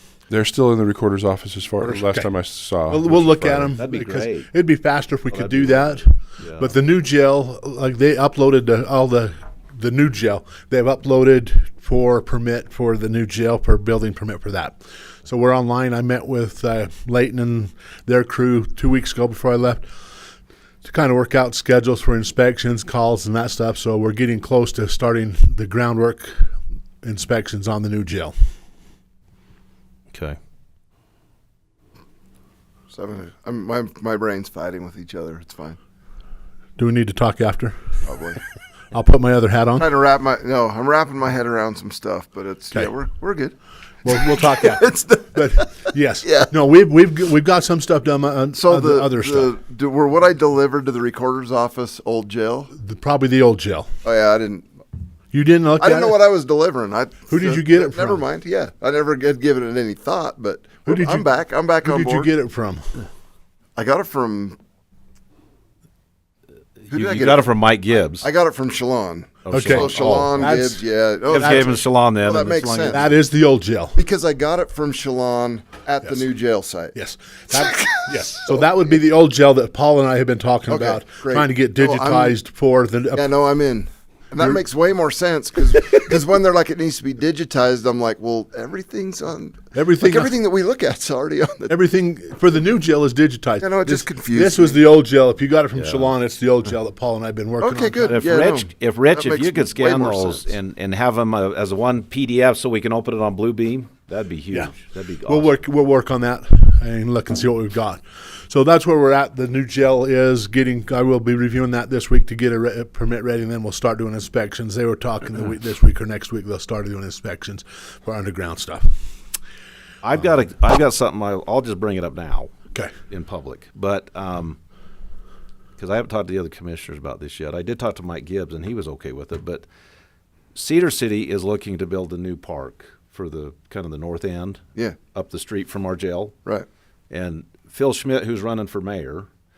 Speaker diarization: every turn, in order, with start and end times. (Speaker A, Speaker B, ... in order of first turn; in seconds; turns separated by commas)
Speaker A: 0.3-3.6, Speaker B: 1.8-19.9, Speaker C: 3.7-4.5, Speaker C: 5.3-6.8, Speaker B: 20.8-28.4, Speaker C: 30.1-30.4, Speaker D: 32.9-35.8, Speaker B: 36.8-38.0, Speaker D: 38.0-38.4, Speaker B: 38.9-39.9, Speaker D: 39.8-43.5, Speaker B: 44.0-49.5, Speaker D: 44.1-46.5, Speaker D: 48.5-52.7, Speaker B: 52.7-53.9, Speaker D: 54.0-54.7, Speaker B: 55.3-56.2, Speaker D: 55.8-62.3, Speaker B: 57.3-58.2, Speaker B: 60.9-63.0, Speaker D: 63.8-64.6, Speaker D: 66.9-67.5, Speaker C: 66.9-68.3, Speaker D: 68.2-73.0, Speaker C: 69.4-70.5, Speaker B: 69.5-71.8, Speaker C: 71.3-73.2, Speaker B: 72.9-74.0, Speaker D: 74.0-77.0, Speaker B: 76.9-83.3, Speaker D: 77.6-79.0, Speaker D: 80.7-82.4, Speaker D: 83.1-91.7, Speaker B: 89.7-90.4, Speaker B: 91.7-98.2, Speaker D: 93.6-94.8, Speaker C: 95.7-96.2, Speaker D: 97.6-100.5, Speaker C: 98.0-105.6, Speaker B: 104.5-118.9, Speaker C: 120.0-124.6, Speaker C: 125.8-129.7, Speaker C: 130.5-136.3, Speaker C: 137.1-139.3